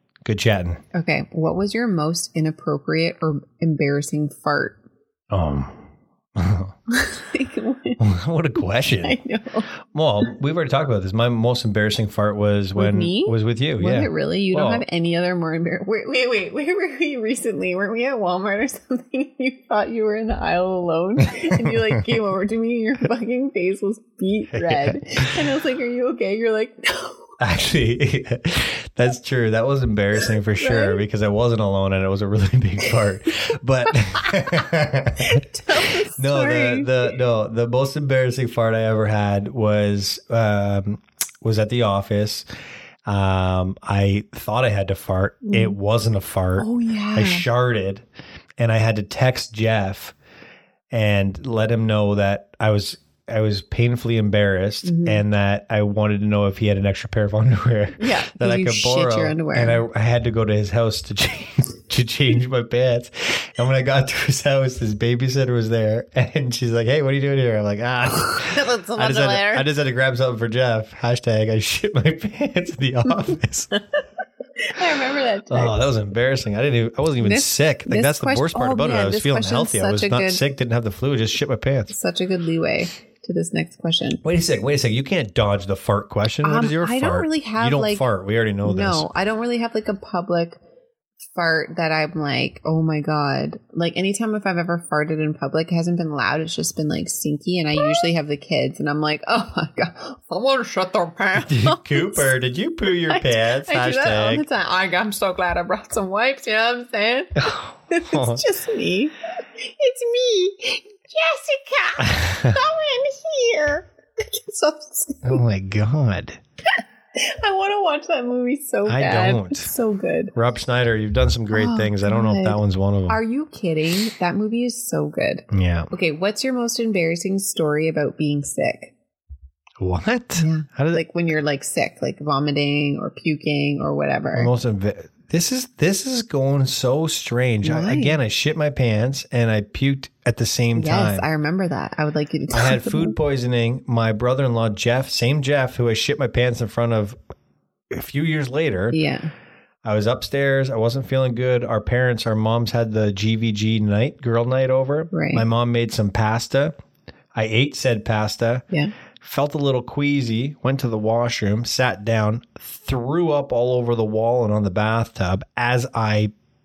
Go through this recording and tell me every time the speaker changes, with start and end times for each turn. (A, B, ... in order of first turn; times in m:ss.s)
0:00.2-0:00.8 A
0:00.9-0:04.8 B
0:05.3-0:05.8 A
0:06.4-0:06.7 A
0:06.9-0:08.0 B
0:08.0-0:09.2 A
0:09.0-0:09.7 B
0:09.9-0:14.8 A
0:12.8-0:27.3 B
0:21.3-0:22.2 A
0:24.5-0:25.3 A
0:27.4-0:35.4 A
0:30.6-0:31.0 B
0:34.2-0:34.6 B
0:35.2-0:36.9 B
0:36.2-0:42.4 A
0:43.1-0:48.0 A
0:45.5-0:45.8 B
0:46.6-0:47.5 B
0:48.6-0:50.2 A
0:50.9-1:13.7 A
0:54.8-0:55.2 B
0:58.0-0:59.8 B
1:08.2-1:09.7 B
1:14.7-1:15.7 B
1:15.5-1:21.9 A
1:17.2-1:20.4 B
1:21.9-1:24.2 B
1:24.2-1:29.1 A
1:26.4-1:28.0 B
1:28.6-1:30.6 B
1:31.4-1:42.3 B
1:41.4-1:44.4 A
1:42.9-1:55.4 B
1:47.4-1:48.4 A
1:52.0-1:52.6 A
1:55.2-1:56.4 A
1:56.7-2:00.4 B
1:58.9-1:59.7 A
2:00.4-2:03.2 A
2:01.5-2:08.9 B
2:05.5-2:05.9 A
2:09.8-2:11.0 A
2:10.4-2:14.5 B
2:14.4-2:21.3 A
2:17.6-2:18.2 B
2:20.8-2:23.2 B
2:22.5-2:27.2 A
2:27.9-2:29.0 A
2:28.9-2:29.3 B
2:29.8-2:36.8 A
2:35.1-2:35.4 B
2:37.3-2:38.6 A
2:39.2-2:46.3 A